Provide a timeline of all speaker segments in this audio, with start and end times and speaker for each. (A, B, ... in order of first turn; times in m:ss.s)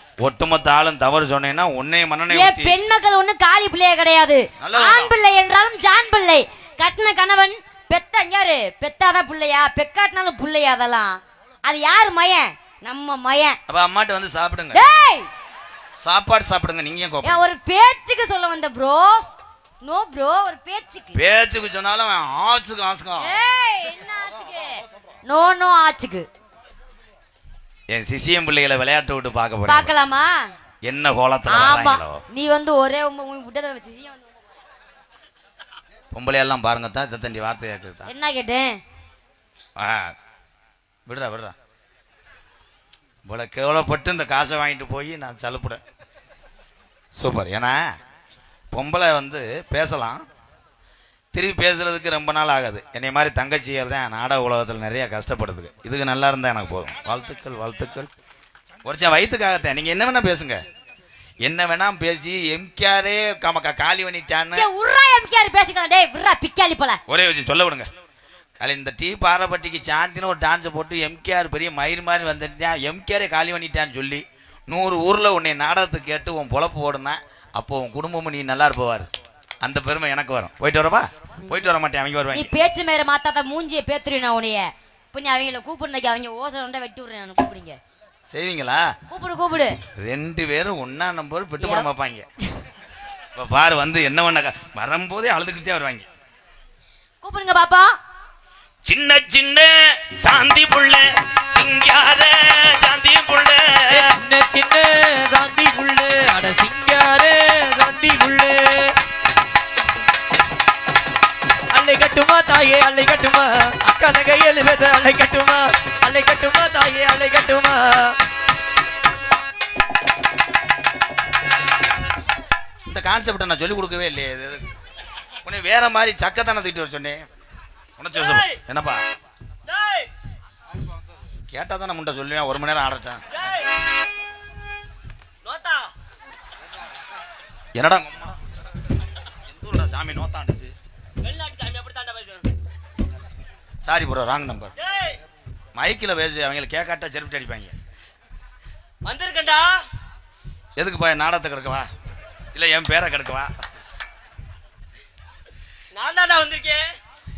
0:00.2-0:02.8 A
0:02.3-0:13.6 B
0:04.6-0:05.2 A
0:13.7-0:14.8 A
0:14.7-0:15.3 B
0:16.0-0:17.4 A
0:17.2-0:19.3 B
0:19.8-0:21.2 B
0:21.1-0:23.5 A
0:23.2-0:26.3 B
0:24.1-0:25.1 A
0:27.9-0:29.9 A
0:29.7-0:30.5 B
0:30.8-0:32.2 A
0:31.5-0:34.4 B
0:36.1-0:38.1 A
0:38.1-0:38.8 B
0:39.8-0:40.2 A
0:41.1-0:41.6 A
0:43.3-0:45.8 A
0:47.2-0:47.8 A
0:48.7-0:50.2 A
0:51.3-0:58.1 A
0:58.8-1:00.6 A
1:01.4-1:04.7 A
1:04.5-1:07.0 B
1:07.1-1:07.9 A
1:08.6-1:19.1 A
1:19.6-1:22.5 A
1:22.3-1:27.8 B
1:28.3-1:28.9 A
1:29.1-1:29.8 B
1:30.0-1:32.3 A
1:31.6-1:31.9 B
1:33.4-1:36.1 A
1:37.2-1:37.9 B
1:38.8-1:44.1 A
1:44.2-1:49.0 C
1:51.7-1:58.2 C
2:02.9-2:04.6 A
2:05.4-2:07.2 A
2:08.0-2:09.0 A
2:08.1-2:08.6 D
2:09.7-2:10.1 D
2:11.5-2:13.2 A
2:13.4-2:13.7 D
2:15.4-2:15.9 D
2:17.7-2:18.4 A
2:19.4-2:20.8 A
2:21.2-2:22.5 D
2:23.8-2:24.7 A
2:24.8-2:25.2 D
2:25.8-2:27.8 A
2:29.0-2:29.8 D
2:30.8-2:31.9 A
2:32.5-2:33.5 A
2:35.9-2:36.9 D